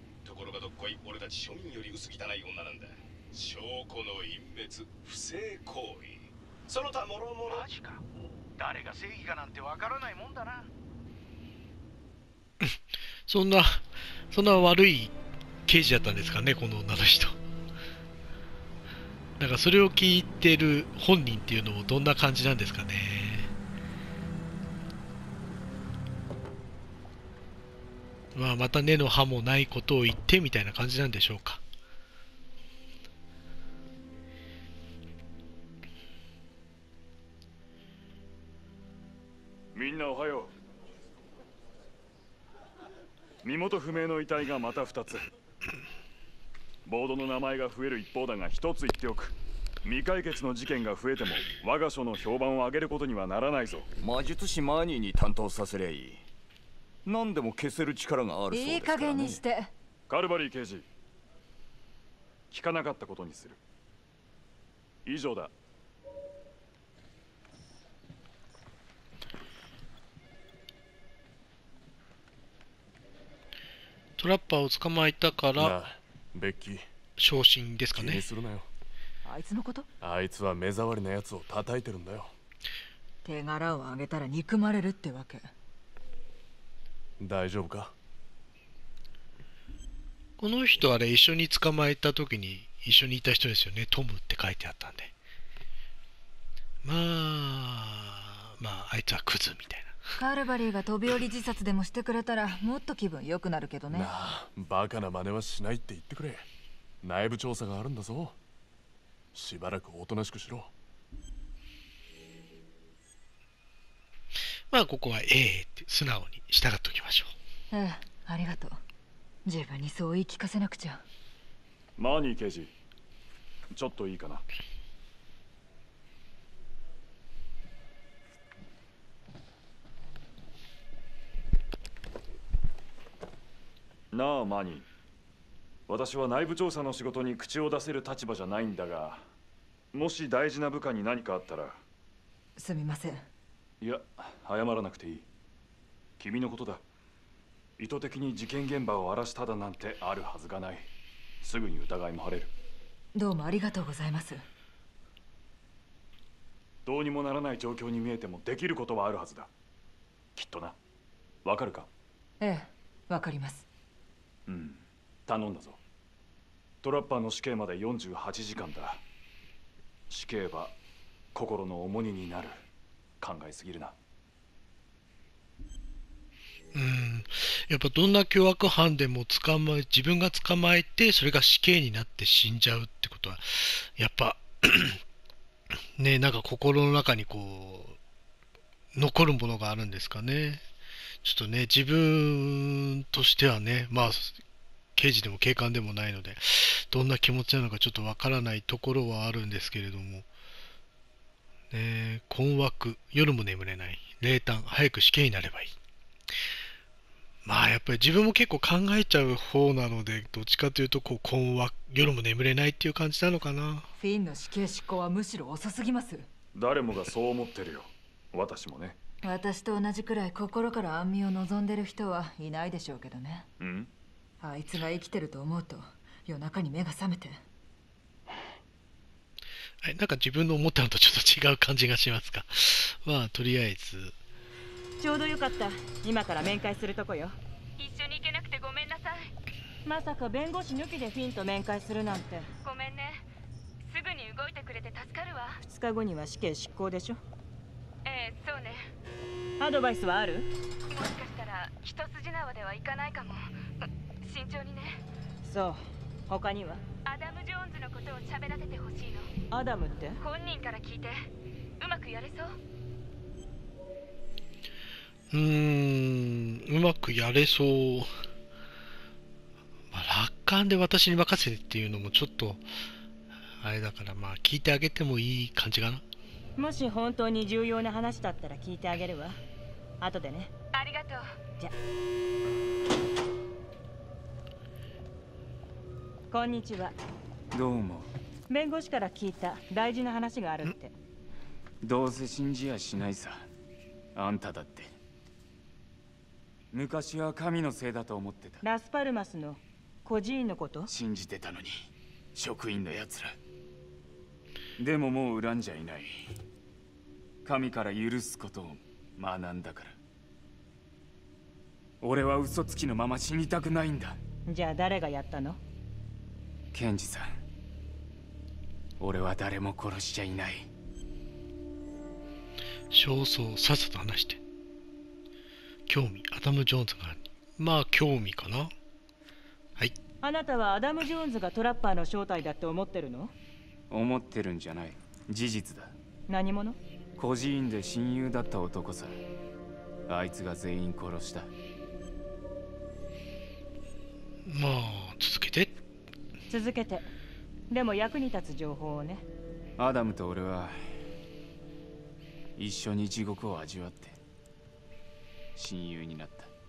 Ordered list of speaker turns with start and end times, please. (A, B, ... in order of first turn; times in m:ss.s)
0:00.2-0:07.7 A
0:07.4-0:08.0 B
0:08.6-0:10.7 B
0:13.3-0:15.1 C
0:15.6-0:17.4 C
0:19.4-0:23.5 C
0:28.3-0:31.6 C
0:39.7-0:40.5 D
0:43.4-0:45.3 D
0:46.8-0:53.9 D
0:54.0-0:56.2 E
0:57.0-0:59.4 E
0:58.5-0:59.7 F
1:00.1-1:00.9 D
1:02.5-1:03.6 D
1:05.0-1:05.5 D
1:14.2-1:15.7 C
1:15.5-1:16.8 G
1:17.2-1:18.2 C
1:17.9-1:18.7 G
1:19.2-1:19.9 F
1:20.0-1:22.3 G
1:23.2-1:25.5 F
1:27.2-1:27.9 G
1:30.4-1:35.1 C
1:36.8-1:40.0 C
1:40.2-1:44.1 F
1:43.9-1:46.5 G
1:47.0-1:48.4 G
1:49.3-1:50.7 G
1:54.7-1:57.3 C
1:57.7-1:58.8 F
1:59.4-2:01.0 F
2:02.0-2:02.7 D
2:03.7-2:04.4 D
2:14.1-2:14.8 D
2:15.9-2:19.3 D
2:19.9-2:21.8 D
2:22.6-2:23.3 F
2:23.8-2:25.3 D
2:26.2-2:26.8 D
2:27.8-2:30.9 D
2:31.4-2:32.5 D
2:33.1-2:34.4 F
2:36.8-2:39.5 D
2:40.4-2:40.8 D
2:41.4-2:41.9 D
2:42.4-2:43.6 F
2:44.5-2:45.8 D
2:46.8-2:49.0 D
2:50.1-2:50.8 D
2:51.3-2:52.6 D
2:53.2-2:53.9 D
2:56.7-3:05.0 C
3:06.0-3:08.0 C
3:08.9-3:10.6 C
3:11.2-3:14.4 C
3:15.0-3:20.2 C
3:21.7-3:25.7 C
3:27.4-3:33.9 C
3:34.0-3:36.2 F
3:36.5-3:39.0 D
3:39.2-3:43.5 F
3:43.6-3:43.9 D
3:44.4-3:47.4 F
3:49.8-3:54.1 C
3:55.0-3:57.4 H
3:57.8-3:59.3 I
3:59.8-4:02.5 H
4:02.6-4:03.3 I
4:03.8-4:05.6 I
4:05.6-4:07.2 H
4:08.0-4:08.8 I
4:09.6-4:10.4 H
4:10.9-4:15.0 I
4:15.4-4:16.8 H
4:17.0-4:19.3 I
4:19.5-4:20.2 H
4:20.2-4:21.3 I
4:21.8-4:22.5 I
4:25.3-4:28.1 C
4:29.9-4:32.6 C
4:33.6-4:36.0 C
4:36.6-4:39.4 H
4:40.0-4:40.5 H
4:40.7-4:41.2 I
4:46.3-4:46.9 H
4:47.5-4:48.1 J
4:48.5-4:50.9 H
4:51.8-4:53.4 J
4:54.1-4:54.9 J
4:56.7-4:58.6 J
4:58.6-5:00.9 H
5:00.9-5:03.4 J
5:04.8-5:06.1 J
5:07.4-5:10.0 J
5:12.0-5:14.2 J
5:14.5-5:15.6 H
5:16.7-5:17.3 J
5:19.0-5:20.7 J
5:22.9-5:24.4 C
5:25.9-5:28.7 C
5:30.2-5:33.3 H
5:33.9-5:35.9 J
5:36.3-5:36.8 H
5:37.2-5:39.2 J
5:40.1-5:41.5 J
5:44.4-5:45.7 C
5:46.5-5:47.1 H
5:47.7-5:49.2 H
5:49.8-5:50.8 J
5:52.6-5:54.2 J
5:55.6-5:56.5 J